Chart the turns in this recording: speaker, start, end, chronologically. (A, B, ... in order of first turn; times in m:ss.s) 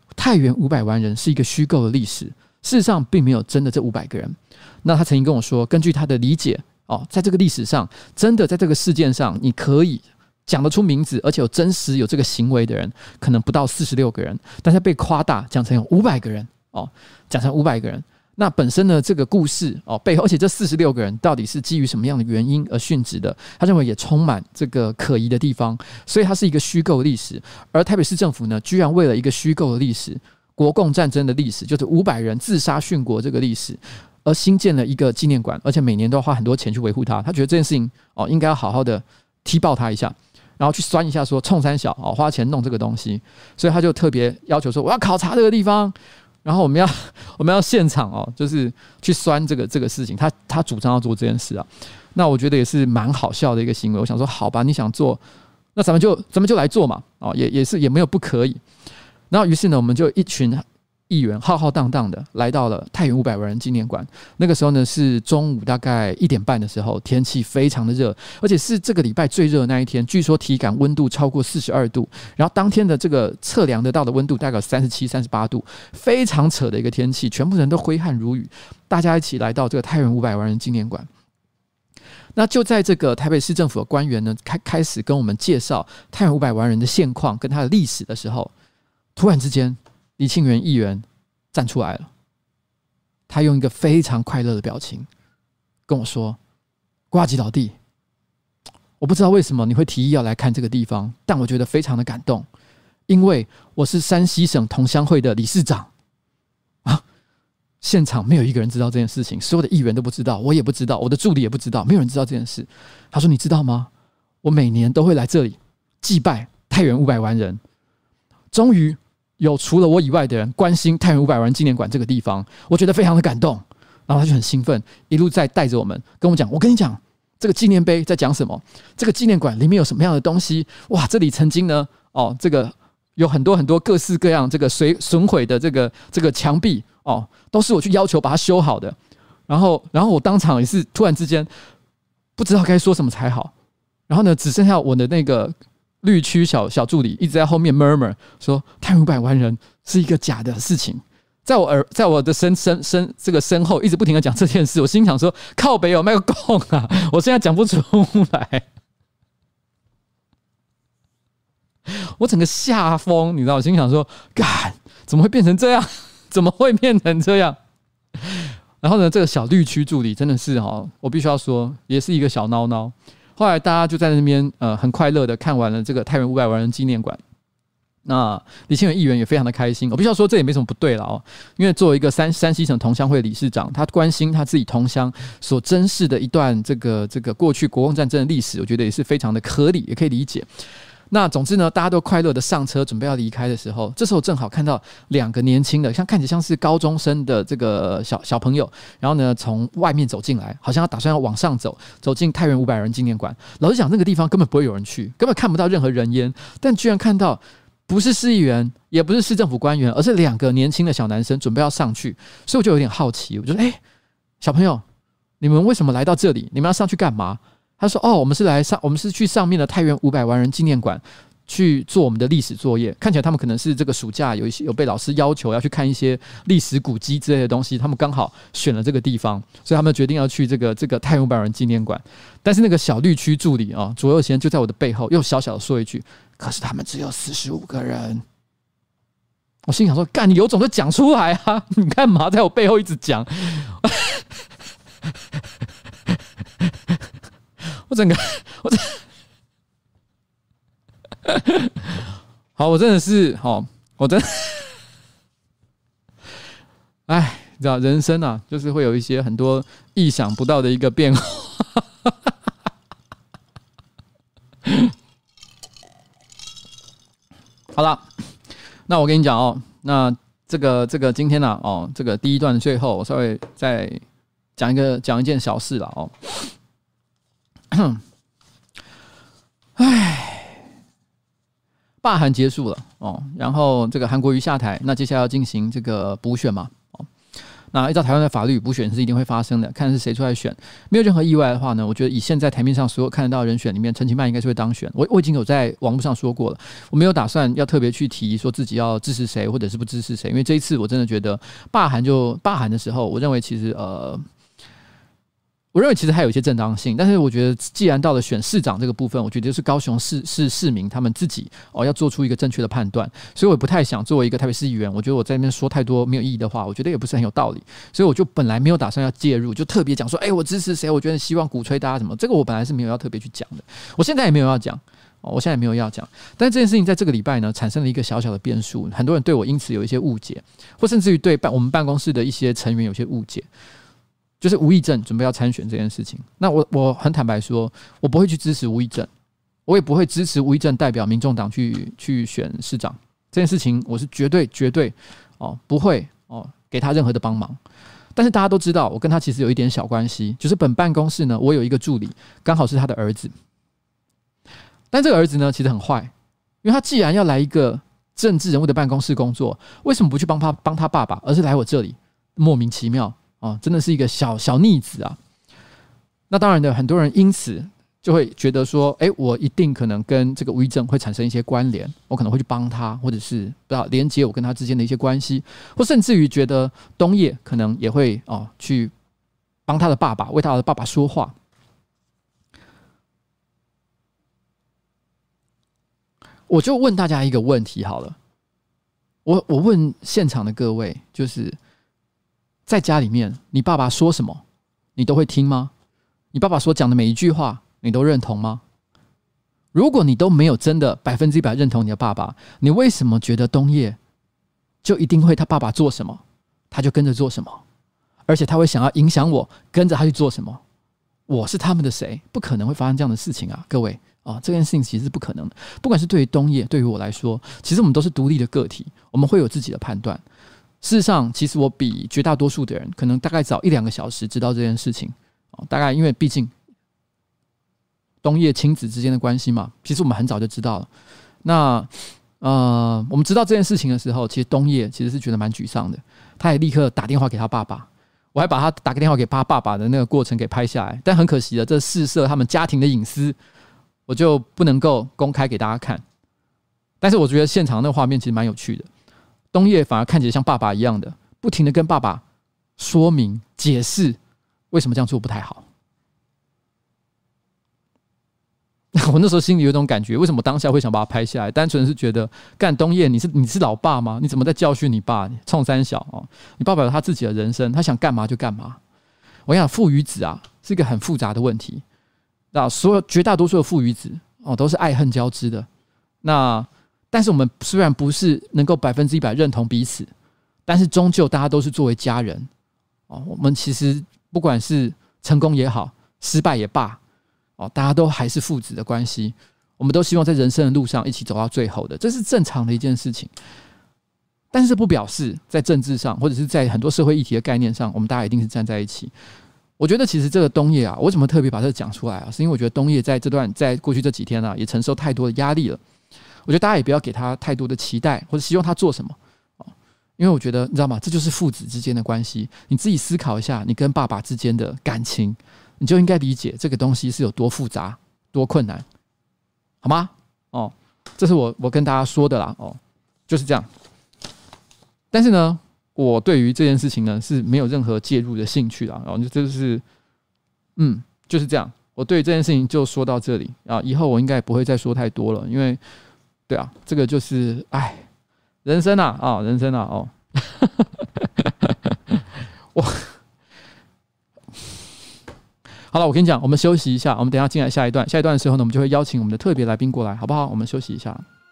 0:00.2-0:55.2 A
0:55.8-0:58.6 A
0:59.3-1:21.1 A
1:22.4-1:28.5 A
1:29.2-1:32.1 A
1:33.3-1:35.1 A
1:35.9-1:36.4 A
1:37.1-1:37.8 A
1:39.0-1:42.5 A
1:43.1-1:45.9 A
1:47.8-1:53.9 A
1:54.4-1:57.6 A
1:58.5-2:19.0 A
2:19.5-2:21.5 A
2:22.4-2:23.5 A
2:24.1-2:38.6 A
2:41.9-2:47.6 A
2:48.2-2:57.2 A
2:58.1-3:10.5 A
3:11.1-3:33.8 A
3:34.4-3:34.8 A
3:35.4-3:58.2 A
3:59.7-4:04.2 A
4:07.9-4:09.0 A
4:11.2-4:12.0 A
4:12.6-4:14.7 A
4:17.1-4:22.3 A
4:24.7-4:24.9 A
4:27.8-4:28.1 A
4:28.9-4:34.0 A
4:34.6-4:36.5 A
4:37.7-4:38.0 A
4:39.8-4:40.6 A
4:42.0-4:47.1 A
4:47.7-5:04.2 A
5:05.7-5:33.5 A
5:34.4-5:39.1 A
5:39.7-5:47.6 A
5:48.2-5:53.3 A
5:54.9-5:56.1 A
5:56.6-6:05.2 A
6:06.3-6:18.9 A
6:19.7-6:21.3 A
6:26.5-6:28.2 A
6:29.3-6:31.6 A
6:32.7-6:34.4 A
6:35.0-6:35.7 A
6:36.3-6:38.6 A
6:39.7-6:44.0 A
6:44.8-6:47.6 A
6:48.3-6:50.6 A
6:51.3-7:00.2 A
7:00.8-7:06.5 A
7:08.2-7:10.9 A
7:11.4-7:23.4 A
7:24.1-7:26.0 A
7:27.0-7:28.9 A
7:29.5-7:32.2 A
7:32.8-7:34.2 A
7:34.7-7:35.6 A
7:38.9-7:48.8 A
7:49.5-7:51.8 A
7:52.5-7:55.7 A
7:56.2-8:00.1 A
8:00.7-8:02.5 A
8:03.1-8:07.0 A
8:07.6-8:13.3 A
8:14.5-8:19.1 A
8:19.8-8:25.8 A
8:26.5-8:38.8 A
8:39.8-8:43.7 A
8:45.1-8:49.8 A
8:50.8-8:55.8 A
8:56.5-8:58.0 A
8:58.6-9:02.2 A
9:02.8-9:03.1 A
9:05.9-9:11.2 A